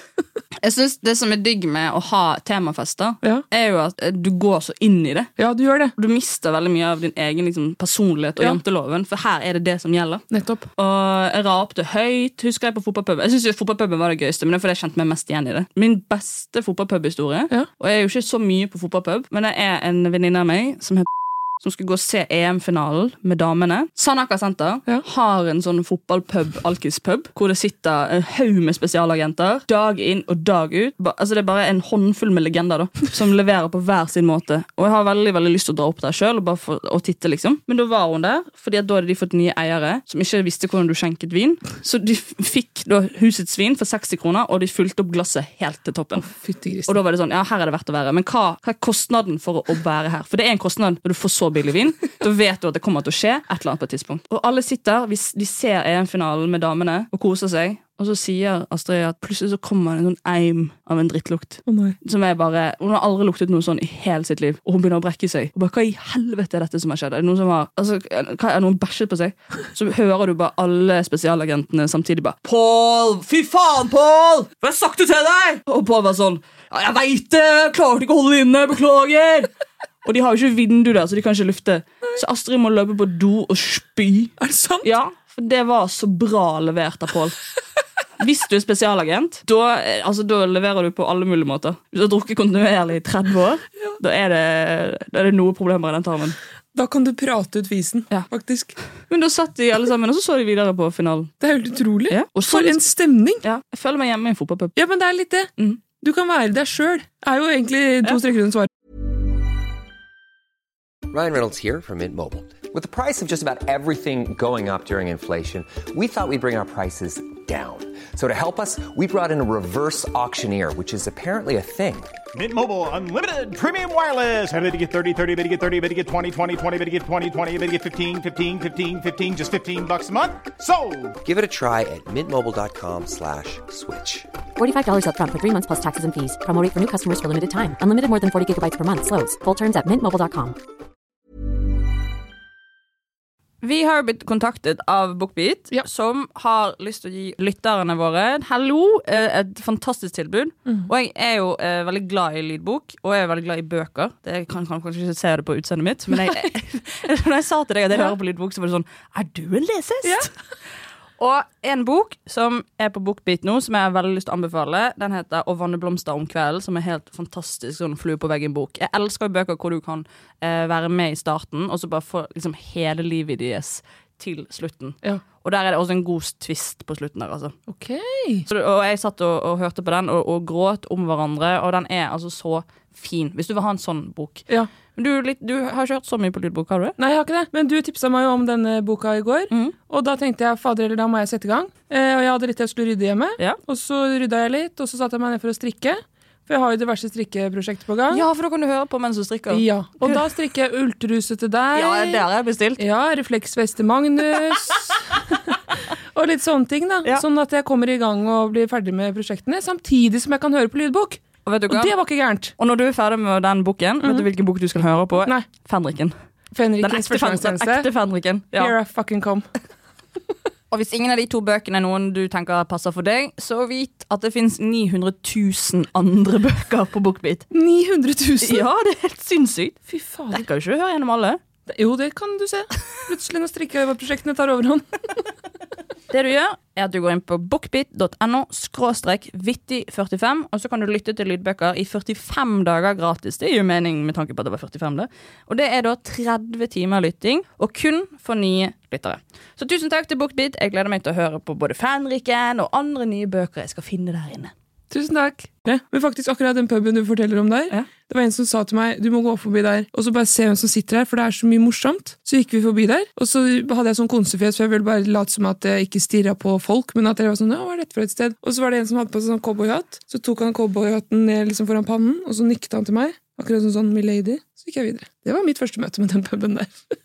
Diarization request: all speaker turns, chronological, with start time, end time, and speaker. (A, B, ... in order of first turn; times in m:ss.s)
0:00.6-0:05.3 A
0:05.4-0:05.9 B
0:06.0-0:10.2 A
0:10.3-0:10.6 B
0:10.8-0:21.1 A
0:21.6-0:46.3 A
0:46.2-0:46.9 B
0:46.9-1:19.5 A
1:01.6-1:02.0 B
1:20.0-1:27.4 A
1:24.4-1:24.9 B
1:28.2-1:36.4 A
1:36.7-1:38.7 B
1:39.1-1:41.3 A
1:41.4-1:43.4 B
1:42.1-1:42.9 A
1:43.4-1:44.7 A
1:44.8-1:48.7 B
1:51.1-2:02.1 C
2:02.3-2:11.2 D
2:11.2-2:14.3 C
2:14.6-2:20.6 E
2:23.6-2:40.3 A
2:40.0-2:40.3 B
2:41.2-2:57.6 A
2:57.7-2:58.4 B
2:58.5-3:07.0 A
3:07.0-3:18.2 B
3:18.1-3:20.2 A
3:19.5-3:22.2 B
3:21.7-3:22.8 A
3:22.8-3:25.6 B
3:26.1-3:32.5 B
3:31.4-3:31.9 A
3:32.6-3:36.1 A
3:34.0-3:34.3 B
3:36.5-3:37.9 B
3:36.8-3:38.7 A
3:38.5-3:39.4 B
3:40.7-3:47.5 A
3:47.5-3:48.7 B
3:48.4-3:51.4 A
3:49.9-3:50.4 B
3:51.7-3:54.9 B
3:56.1-4:14.5 A
4:14.9-4:36.7 B